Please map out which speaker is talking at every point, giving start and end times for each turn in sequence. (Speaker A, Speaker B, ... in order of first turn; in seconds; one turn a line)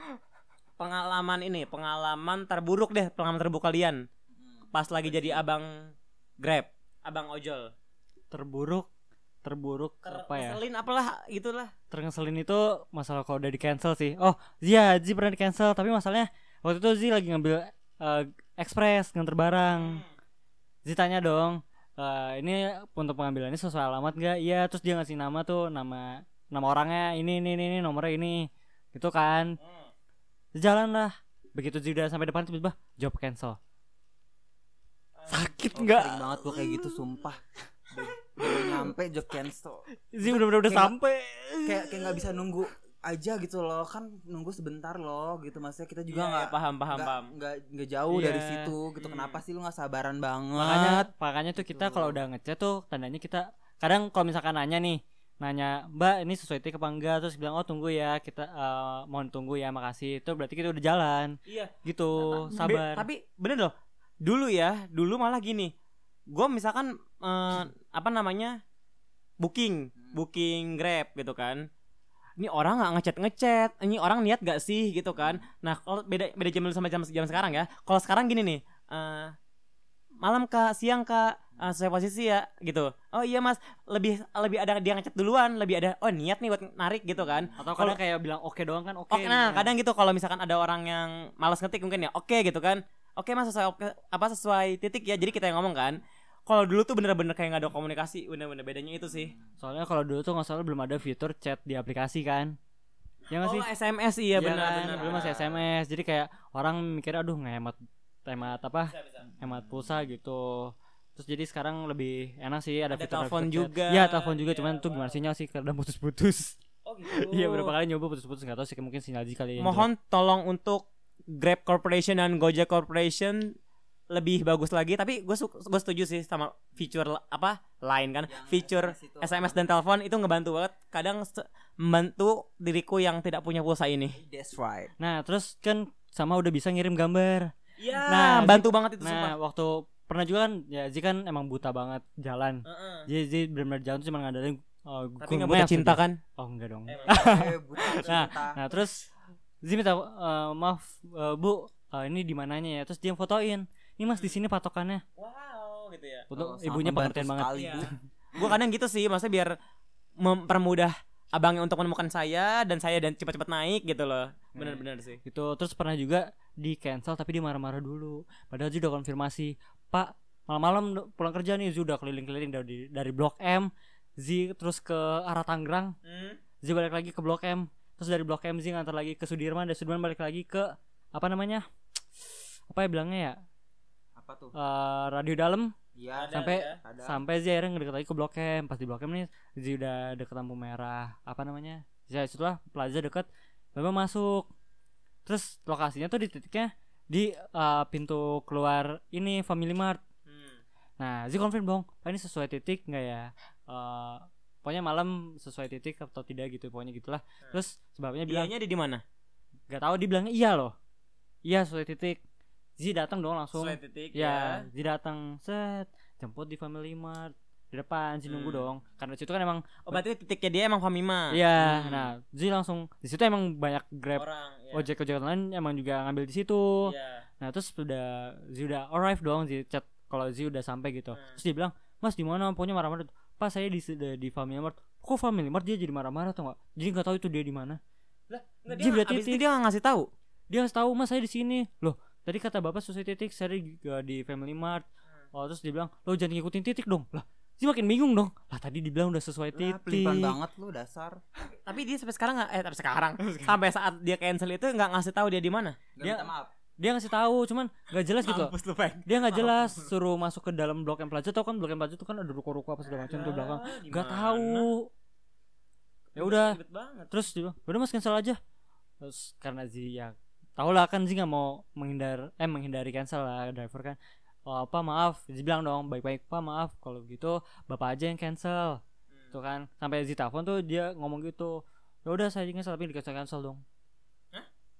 Speaker A: 0.8-4.0
Speaker B: 4.3-5.4
Speaker A: 4.7-7.7
Speaker C: 8.3-8.9
Speaker C: 9.4-10.6
Speaker A: 10.0-11.7
Speaker C: 11.9-20.0
Speaker A: 19.7-20.1
Speaker C: 20.8-29.6
Speaker A: 29.6-29.9
Speaker C: 30.5-33.6
Speaker A: 35.1-35.5
Speaker C: 35.3-37.0
Speaker B: 35.7-40.9
Speaker C: 38.4-38.9
Speaker C: 40.1-42.4
Speaker B: 41.6-52.2
Speaker A: 46.1-47.3
Speaker C: 48.1-48.7
Speaker A: 49.0-49.4
Speaker C: 50.5-63.1
Speaker A: 61.5-61.7
Speaker B: 62.2-62.5
Speaker A: 62.5-65.7
Speaker A: 66.3-68.6
Speaker A: 69.4-71.7
Speaker A: 72.4-79.3
Speaker A: 80.2-88.0
Speaker C: 87.6-89.7
Speaker A: 89.1-99.3
Speaker C: 99.6-102.5
Speaker C: 103.3-103.7
Speaker A: 103.3-105.5
Speaker C: 104.3-116.6
Speaker B: 104.9-105.5
Speaker A: 108.9-109.3
Speaker B: 109.4-109.9
Speaker A: 112.9-115.2
Speaker A: 116.8-117.7
Speaker C: 117.1-119.9
Speaker A: 119.6-123.5
Speaker A: 124.1-134.2
Speaker B: 128.3-129.7
Speaker B: 134.1-134.9
Speaker C: 135.0-137.5
Speaker A: 137.8-139.3
Speaker C: 138.0-147.5
Speaker A: 142.7-143.1
Speaker A: 145.2-146.2
Speaker A: 146.9-148.2
Speaker B: 147.1-148.6
Speaker C: 148.0-149.1
Speaker C: 149.6-155.0
Speaker A: 155.2-156.3
Speaker C: 156.3-158.0
Speaker B: 156.3-157.9
Speaker A: 157.5-159.5
Speaker A: 160.2-165.2
Speaker C: 164.6-175.9
Speaker A: 176.0-176.4
Speaker C: 176.6-181.6
Speaker C: 182.7-183.4
Speaker B: 184.2-184.5
Speaker C: 184.5-185.7
Speaker B: 185.9-187.2
Speaker A: 186.1-186.8
Speaker C: 186.3-194.5
Speaker C: 195.2-200.0
Speaker A: 200.3-200.6
Speaker C: 201.0-208.5
Speaker A: 208.3-209.0
Speaker C: 209.7-210.7
Speaker C: 211.4-212.2
Speaker C: 212.8-220.0
Speaker A: 213.6-214.7
Speaker A: 218.2-218.7
Speaker A: 219.9-222.1
Speaker C: 221.3-237.8
Speaker A: 224.2-224.9
Speaker A: 226.8-227.2
Speaker A: 231.1-231.4
Speaker A: 238.3-240.1
Speaker C: 238.7-239.4
Speaker C: 240.5-250.4
Speaker B: 249.5-251.2
Speaker A: 251.6-255.8
Speaker C: 253.2-253.5
Speaker B: 255.9-256.5
Speaker C: 256.0-258.5
Speaker A: 258.2-259.9
Speaker C: 259.1-264.9
Speaker A: 262.9-264.7
Speaker C: 266.1-266.6
Speaker A: 266.2-267.1
Speaker C: 267.1-268.4
Speaker C: 269.0-283.6